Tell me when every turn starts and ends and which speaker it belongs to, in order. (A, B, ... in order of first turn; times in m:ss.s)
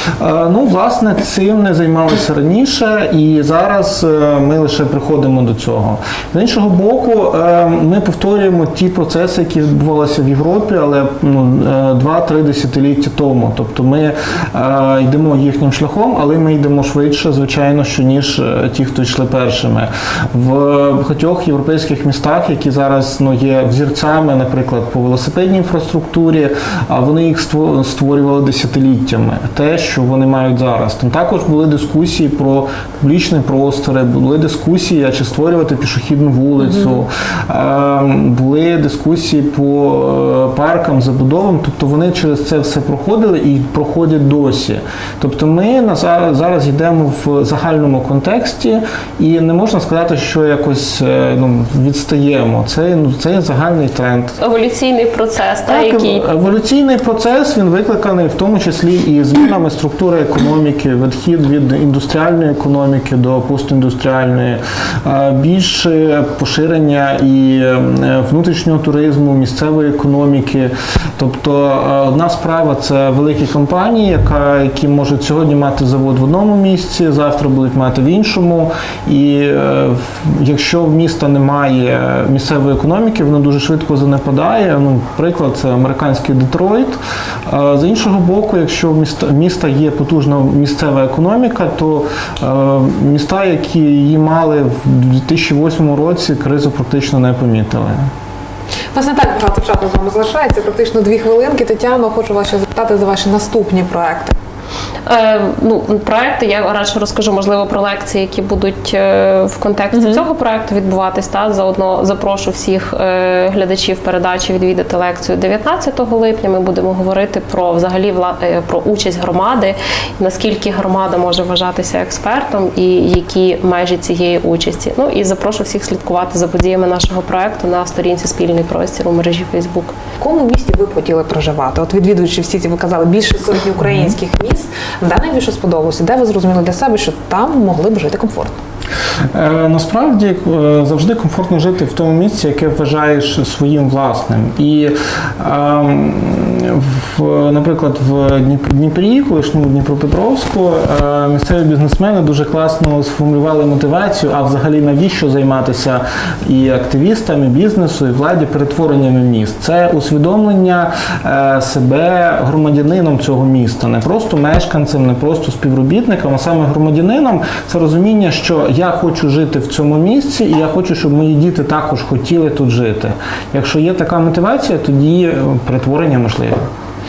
0:00.2-0:54.4 A
0:54.4-0:56.3 B
0:55.7-1:38.1 A
1:38.9-1:44.3 C
1:45.0-2:09.9 B
2:10.2-2:18.5 C
2:19.3-2:56.6 A